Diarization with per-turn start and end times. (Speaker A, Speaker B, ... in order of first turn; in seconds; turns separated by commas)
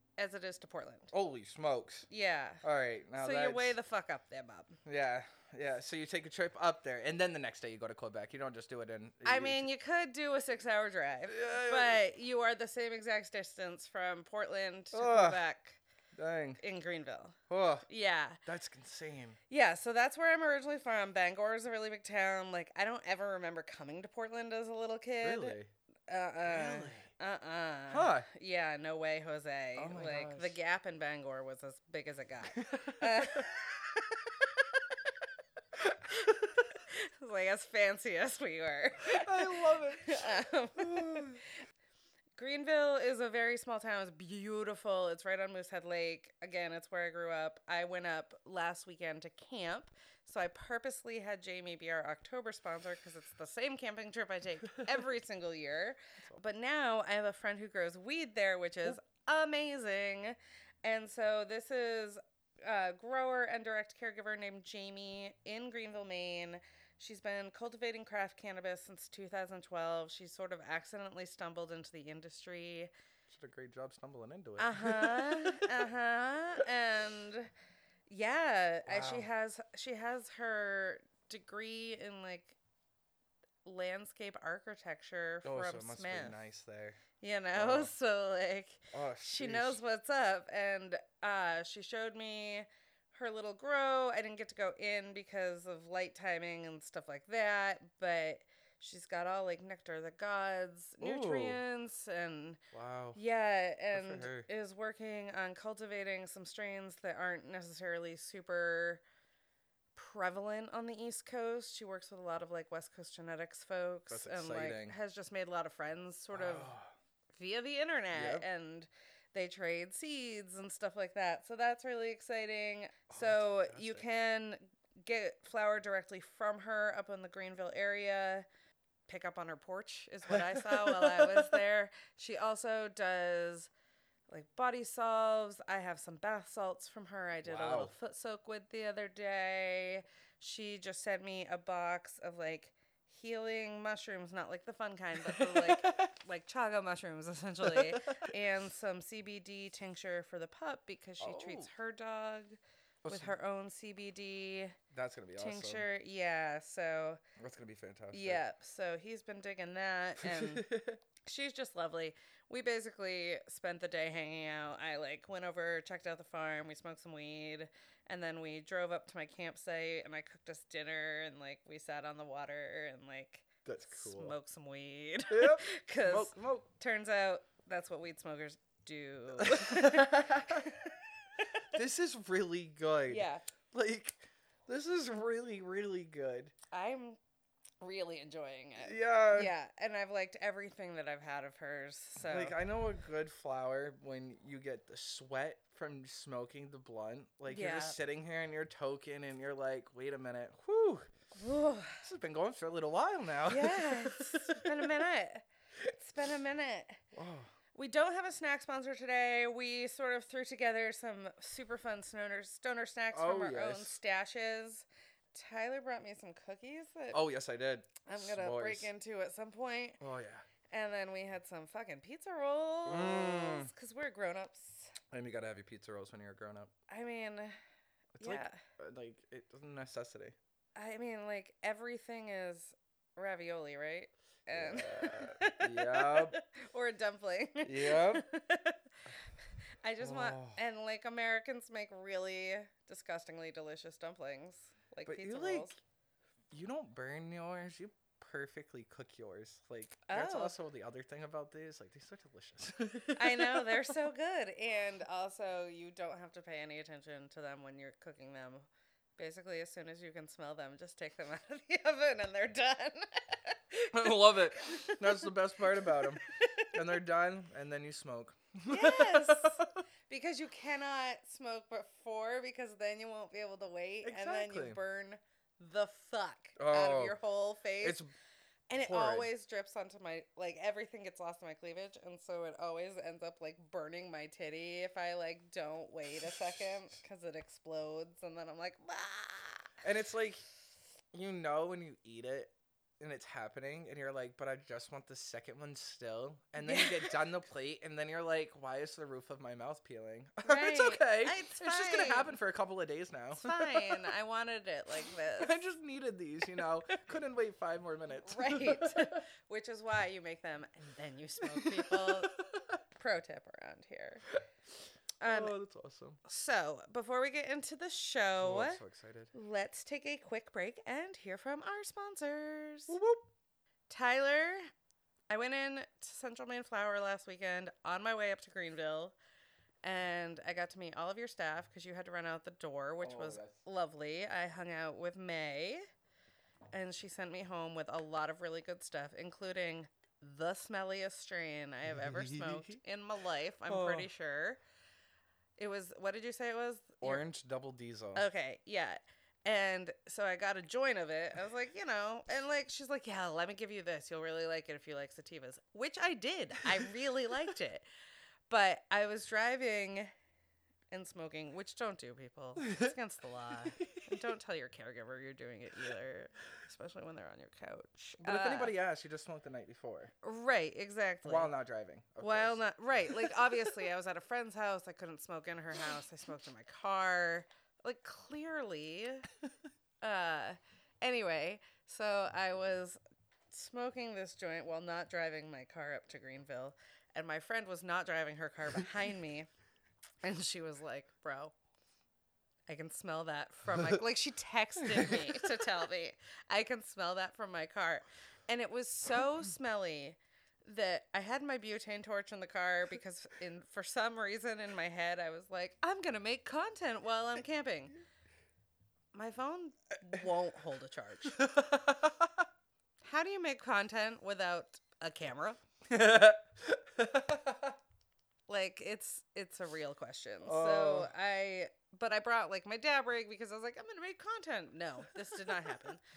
Speaker A: 0.2-1.1, Speaker B: 1.1-2.1, Speaker A: 2.1-2.6, Speaker B: 2.6-3.8, Speaker A: 3.2-4.8, Speaker B: 4.9-9.7, Speaker A: 9.2-15.8, Speaker B: 11.3-12.0, Speaker B: 14.9-15.4, Speaker B: 16.1-16.6, Speaker A: 16.6-18.4, Speaker B: 17.5-17.9, Speaker B: 18.4-19.4, Speaker A: 19.5-25.6, Speaker B: 25.2-25.7, Speaker A: 26.1-35.0, Speaker B: 26.4-27.1, Speaker B: 27.9-28.3, Speaker B: 29.8-30.6, Speaker B: 32.6-33.5, Speaker A: 36.1-41.4, Speaker B: 39.0-41.4, Speaker A: 42.4-72.9, Speaker B: 73.3-75.8, Speaker A: 74.6-77.5, Speaker A: 78.1-82.6, Speaker B: 78.9-79.3, Speaker A: 83.7-86.4, Speaker B: 85.4-87.9, Speaker A: 87.2-102.6, Speaker B: 88.9-89.8, Speaker B: 101.0-101.6, Speaker B: 102.7-103.2, Speaker A: 103.2-109.0, Speaker B: 103.9-104.5, Speaker A: 110.0-116.7, Speaker B: 114.1-115.0, Speaker B: 116.3-116.9, Speaker A: 117.3-128.5, Speaker B: 118.1-118.5, Speaker B: 123.1-124.0, Speaker A: 129.1-133.7, Speaker B: 130.3-131.6, Speaker A: 134.3-154.8, Speaker B: 137.4-137.9, Speaker B: 145.2-146.1, Speaker B: 147.6-148.2, Speaker B: 151.2-151.7, Speaker B: 153.0-153.3, Speaker B: 154.9-155.9, Speaker A: 155.4-157.2, Speaker B: 157.4-158.4, Speaker A: 158.1-160.7, Speaker B: 160.2-161.0, Speaker A: 161.2-181.7, Speaker B: 173.7-174.3, Speaker B: 175.3-176.7, Speaker B: 179.4-180.7, Speaker B: 181.7-186.5, Speaker A: 183.1-183.4, Speaker A: 186.7-187.2, Speaker A: 187.8-192.6, Speaker B: 188.8-189.5, Speaker B: 192.2-201.1, Speaker A: 197.5-198.0, Speaker A: 201.3-202.0, Speaker B: 202.0-205.0, Speaker A: 203.5-207.0, Speaker B: 207.1-207.5, Speaker A: 207.7-217.2, Speaker B: 213.1-214.0, Speaker B: 217.1-218.9, Speaker A: 218.1-220.0, Speaker B: 220.0-220.4, Speaker A: 220.7-224.9, Speaker B: 222.8-223.7, Speaker B: 225.1-226.7, Speaker A: 226.9-227.6, Speaker B: 228.2-230.4, Speaker A: 228.2-228.6, Speaker A: 230.8-238.9, Speaker B: 234.5-236.4, Speaker B: 237.6-238.2, Speaker A: 239.8-245.8, Speaker B: 240.0-240.6, Speaker B: 245.1-245.8, Speaker B: 246.5-254.0, Speaker A: 250.1-250.6, Speaker A: 253.2-265.3, Speaker B: 263.9-266.2, Speaker A: 265.8-266.7, Speaker B: 266.7-269.7, Speaker A: 268.7-278.0, Speaker B: 274.0-274.8, Speaker B: 276.6-277.2, Speaker B: 277.8-278.1, Speaker A: 278.7-289.8, Speaker B: 278.8-279.3, Speaker B: 289.8-290.4, Speaker B: 291.1-304.1, Speaker A: 296.6-297.2, Speaker A: 300.4-302.4, Speaker A: 303.3-305.6, Speaker B: 305.2-309.2, Speaker A: 306.6-307.0, Speaker A: 308.2-312.3, Speaker B: 311.4-312.3, Speaker A: 312.9-314.3, Speaker A: 315.2-315.6, Speaker B: 315.3-316.2, Speaker A: 316.2-318.8, Speaker B: 318.4-319.3, Speaker A: 319.3-323.0, Speaker B: 322.9-323.3, Speaker A: 323.9-324.7, Speaker A: 325.3-329.1, Speaker A: 329.8-335.8, Speaker B: 333.0-333.6, Speaker A: 336.7-344.6, Speaker B: 341.9-342.8, Speaker B: 343.7-344.1, Speaker A: 345.6-347.2, Speaker B: 347.0-348.2, Speaker A: 348.2-357.9, Speaker A: 358.5-360.1, Speaker A: 360.9-368.7, Speaker B: 362.6-362.9, Speaker B: 363.8-364.2, Speaker B: 368.2-370.1, Speaker A: 370.2-371.5, Speaker B: 371.2-373.8, Speaker A: 372.2-379.3, Speaker A: 380.0-383.0, Speaker A: 383.5-389.5, Speaker A: 390.2-391.5, Speaker A: 392.7-408.0, Speaker B: 394.9-395.5, Speaker A: 409.1-411.4, Speaker B: 411.3-412.5, Speaker A: 413.0-415.6, Speaker B: 415.9-417.8, Speaker A: 418.5-426.0, Speaker B: 420.4-421.1